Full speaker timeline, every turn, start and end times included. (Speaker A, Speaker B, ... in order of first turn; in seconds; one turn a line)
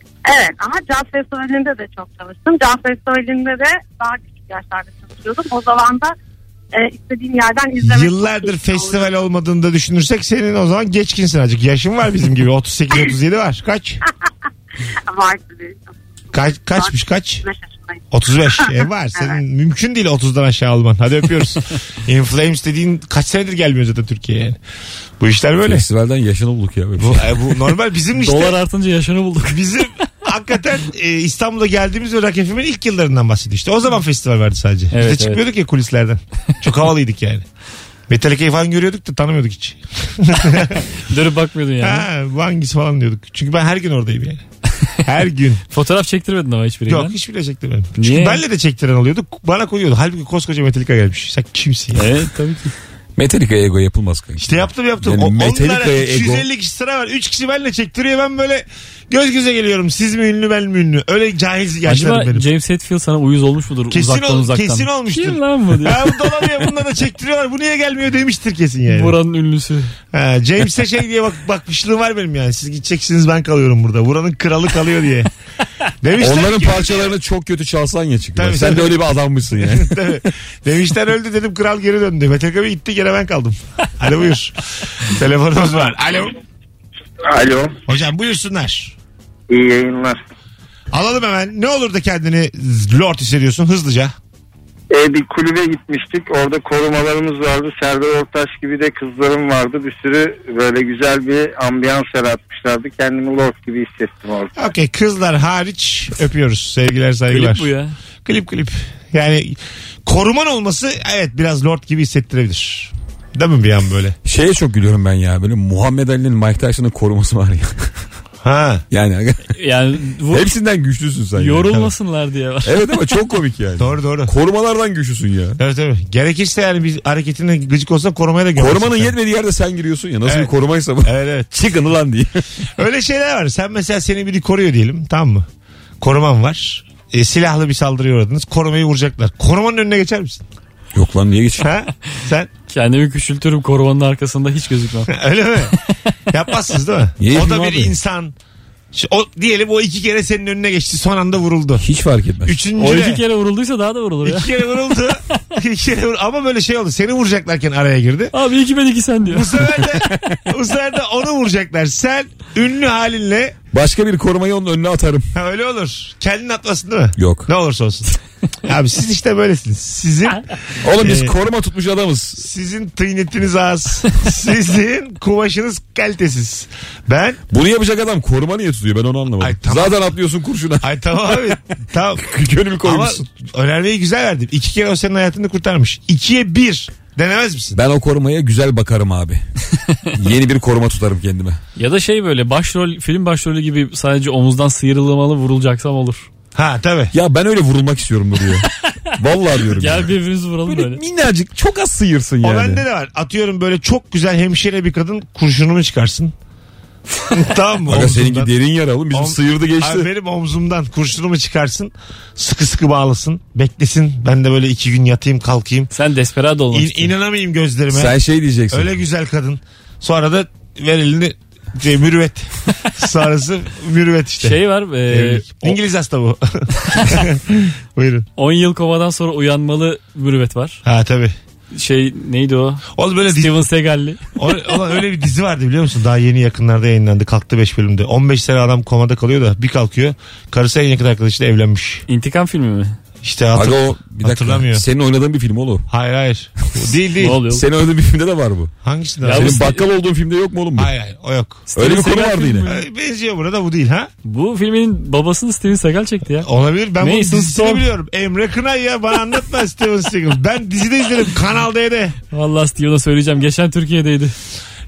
Speaker A: 0.3-6.2
Speaker A: 6.7-9.1
Speaker B: 7.8-14.0
Speaker A: 15.1-15.9
Speaker B: 16.3-17.4
Speaker A: 16.8-18.0
Speaker B: 18.1-24.6
Speaker B: 25.2-25.9
Speaker C: 25.6-27.6
Speaker B: 27.0-28.6
Speaker D: 28.2-30.0
Speaker B: 29.5-37.5
Speaker D: 34.9-35.4
Speaker B: 38.1-40.9
Speaker D: 41.0-42.1
Speaker B: 41.8-44.4
Speaker B: 45.0-45.6
Speaker D: 45.7-47.1
Speaker B: 46.9-52.1
Speaker D: 48.0-48.4
Speaker D: 52.0-52.7
Speaker C: 53.2-56.5
Speaker B: 54.4-62.5
Speaker D: 61.9-66.4
Speaker B: 63.9-69.2
Speaker D: 68.9-69.9
Speaker B: 70.1-75.3
Speaker B: 76.0-77.2
Speaker C: 76.2-80.0
Speaker B: 78.4-86.3
Speaker E: 87.2-87.8
Speaker B: 87.9-89.0
Speaker E: 89.5-90.2
Speaker B: 90.9-94.1
Speaker E: 94.9-104.6
Speaker B: 104.6-107.7
Speaker D: 107.3-108.0
Speaker B: 108.2-114.2
Speaker C: 114.2-117.9
Speaker B: 118.4-118.8
Speaker C: 118.9-119.5
Speaker D: 119.5-120.5
Speaker C: 120.3-121.9
Speaker D: 121.4-122.8
Speaker C: 122.7-125.6
Speaker B: 123.8-124.3
Speaker B: 125.6-129.1
Speaker C: 128.6-132.4
Speaker B: 130.2-130.5
Speaker B: 131.0-131.5
Speaker B: 132.8-135.5
Speaker B: 136.0-140.4
Speaker C: 140.9-141.7
Speaker B: 141.6-142.5
Speaker D: 142.7-145.1
Speaker B: 145.1-145.8
Speaker B: 146.3-148.3
Speaker C: 147.2-147.9
Speaker B: 148.9-151.9
Speaker C: 151.8-152.6
Speaker B: 152.4-153.2
Speaker D: 152.8-154.5
Speaker B: 154.2-158.3
Speaker D: 158.3-159.9
Speaker B: 159.3-163.6
Speaker C: 160.1-160.4
Speaker C: 163.7-165.3
Speaker B: 165.3-168.1
Speaker C: 167.2-167.5
Speaker B: 168.6-171.3
Speaker C: 170.8-172.4
Speaker B: 172.4-177.4
Speaker C: 177.5-181.6
Speaker B: 179.4-180.1
Speaker B: 180.8-187.8
Speaker C: 182.2-183.2
Speaker C: 187.8-189.4
Speaker C: 190.1-191.6
Speaker D: 191.8-196.3
Speaker B: 196.6-197.1
Speaker C: 197.1-200.1
Speaker D: 199.6-201.0
Speaker C: 200.7-202.8
Speaker B: 202.4-206.3
Speaker B: 207.3-208.5
Speaker C: 207.9-210.1
Speaker B: 209.1-215.9
Speaker D: 215.9-217.1
Speaker B: 216.7-218.2
Speaker C: 217.9-218.9
Speaker B: 218.7-228.3
Speaker D: 224.4-225.8
Speaker D: 228.4-230.8
Speaker B: 230.8-231.3
Speaker D: 231.7-234.2
Speaker B: 232.9-233.6
Speaker B: 234.4-242.1
Speaker D: 242.1-243.0
Speaker B: 243.2-244.8
Speaker C: 243.6-245.9
Speaker B: 245.9-247.5
Speaker D: 247.2-247.6
Speaker C: 247.5-248.7
Speaker B: 248.8-249.6
Speaker D: 249.2-249.8
Speaker C: 249.3-250.9
Speaker B: 250.8-251.7
Speaker D: 251.7-252.8
Speaker C: 251.8-252.7
Speaker B: 252.7-254.1
Speaker D: 254.2-256.5
Speaker B: 256.4-262.2
Speaker D: 257.0-257.9
Speaker D: 262.3-264.4